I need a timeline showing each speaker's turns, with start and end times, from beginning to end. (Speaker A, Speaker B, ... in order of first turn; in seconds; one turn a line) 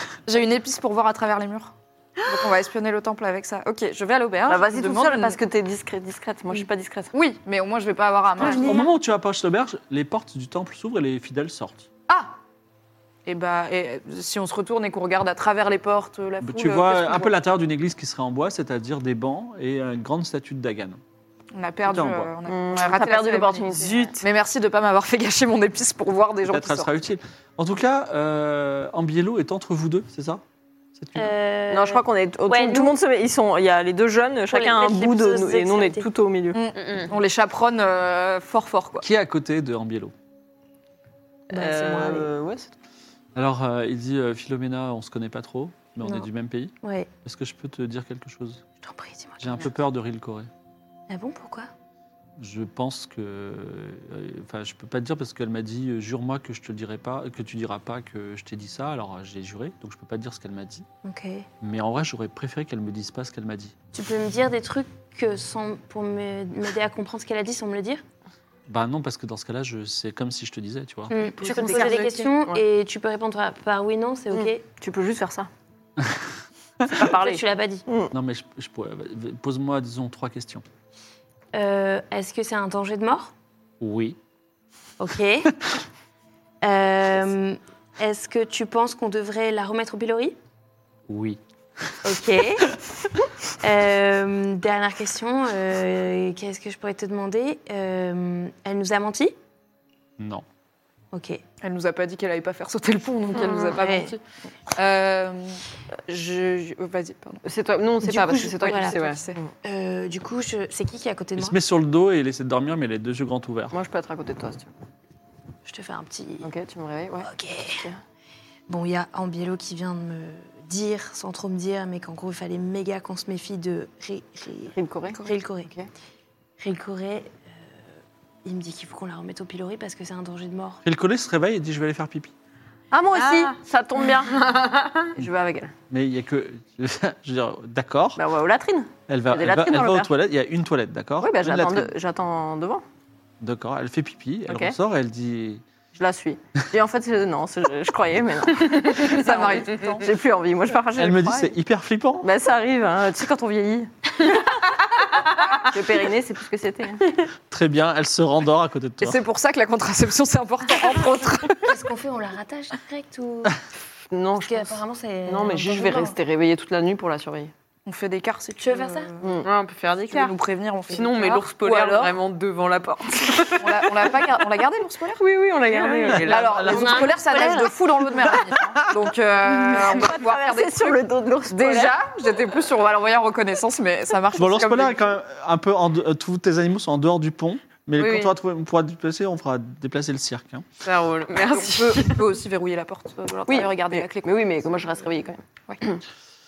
Speaker A: 0.2-1.7
Speaker A: 2.2-5.4
Speaker B: 4.5-7.1
Speaker A: 7.1-8.9
Speaker C: 8.4-11.9
Speaker A: 12.1-12.3
Speaker A: 13.2-17.3
Speaker C: 16.4-21.0
Speaker A: 21.5-26.9
Speaker C: 21.8-22.3
Speaker B: 22.4-24.2
Speaker C: 26.4-30.4
Speaker C: 30.9-31.3
Speaker D: 31.1-33.0
Speaker B: 31.7-36.6
Speaker D: 34.5-36.1
Speaker A: 36.5-39.0
Speaker E: 36.8-37.1
Speaker C: 39.0-40.1
Speaker D: 41.5-42.3
Speaker B: 41.5-42.7
Speaker C: 43.3-46.7
Speaker D: 46.0-46.3
Speaker D: 46.8-47.1
Speaker C: 47.2-48.6
Speaker D: 48.8-49.7
Speaker C: 49.4-50.5
Speaker D: 51.1-51.7
Speaker C: 52.4-60.9
Speaker D: 61.0-61.5
Speaker C: 61.6-63.7
Speaker D: 63.9-68.0
Speaker C: 68.7-71.3
Speaker D: 71.1-74.6
Speaker A: 71.4-72.3
Speaker B: 71.4-72.6
Speaker B: 74.3-75.5
Speaker C: 76.0-76.2
Speaker D: 76.9-77.8
Speaker B: 77.0-78.1
Speaker C: 78.1-80.6
Speaker D: 81.5-83.3
Speaker C: 83.8-84.2
Speaker D: 85.0-85.5
Speaker D: 86.6-90.3
Speaker C: 91.1-91.4
Speaker D: 92.0-92.7
Speaker D: 93.6-99.3
Speaker C: 100.2-100.4
Speaker D: 101.1-101.4
Speaker A: 101.6-104.2
Speaker B: 103.3-104.0
Speaker D: 103.4-104.2
Speaker A: 104.7-107.4
Speaker B: 107.4-109.5
Speaker D: 108.0-109.0
Speaker A: 108.1-109.4
Speaker D: 109.6-111.5
Speaker C: 111.4-113.7
Speaker B: 113.7-114.7
Speaker D: 115.7-116.5
Speaker B: 116.4-118.0
Speaker D: 117.2-117.9
Speaker D: 118.7-125.7
Speaker B: 124.7-125.2
Speaker D: 126.6-127.9
Speaker D: 128.4-130.8
Speaker C: 130.8-132.3
Speaker B: 132.9-134.4
Speaker E: 133.1-133.6
Speaker E: 134.3-135.2
Speaker B: 135.2-135.7
Speaker C: 135.9-138.2
Speaker B: 138.2-140.1
Speaker C: 139.1-141.9
Speaker B: 141.2-142.8
Speaker C: 143.4-145.6
Speaker B: 144.5-144.8
Speaker B: 145.9-151.5
Speaker A: 149.0-150.1
Speaker C: 151.0-152.2
Speaker B: 152.2-154.4
Speaker B: 155.5-157.2
Speaker C: 157.5-159.2
Speaker A: 159.0-161.8
Speaker D: 161.6-163.6
Speaker B: 164.1-167.5
Speaker D: 164.4-166.1
Speaker A: 167.8-169.3
Speaker D: 168.6-169.1
Speaker B: 169.2-169.5
Speaker E: 169.4-170.3
Speaker A: 170.1-172.2
Speaker E: 170.9-173.8
Speaker A: 173.6-175.2
Speaker B: 175.2-176.5
Speaker E: 175.7-176.5
Speaker A: 175.9-185.2
Speaker C: 176.1-177.1
Speaker D: 176.7-177.7
Speaker B: 177.2-177.7
Speaker C: 178.2-178.8
Speaker B: 179.4-182.0
Speaker C: 184.3-190.7
Speaker E: 190.8-192.2
Speaker A: 191.3-194.3
Speaker B: 193.5-195.9